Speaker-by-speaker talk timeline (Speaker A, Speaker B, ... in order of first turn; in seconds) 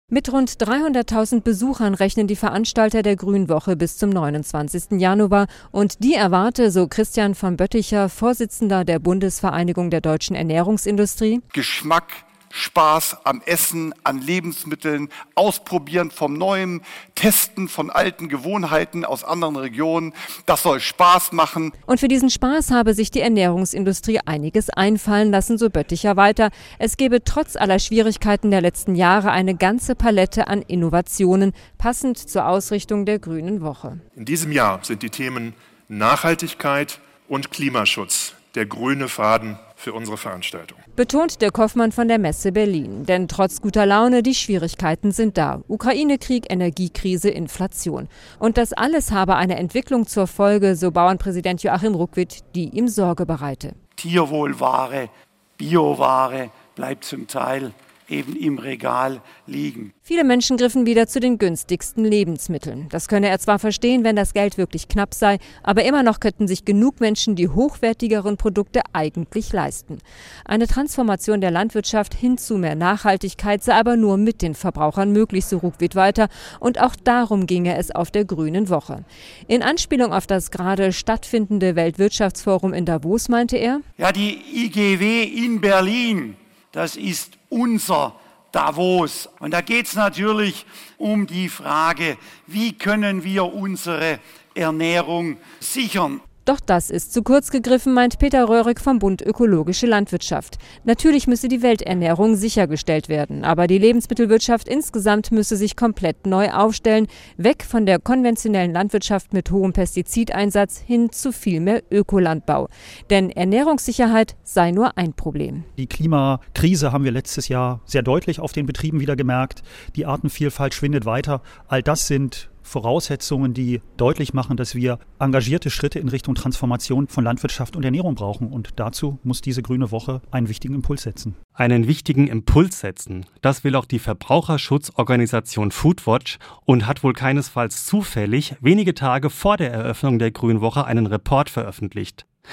Speaker A: 0.1-11.4, 21.9-34.0, 41.0-53.8, 60.0-83.8, 96.5-115.7
Speaker B: 11.5-21.7
Speaker C: 34.1-40.8
Speaker D: 54.0-59.9, 84.0-96.2
Speaker E: 115.8-131.4
Speaker F: 131.6-142.2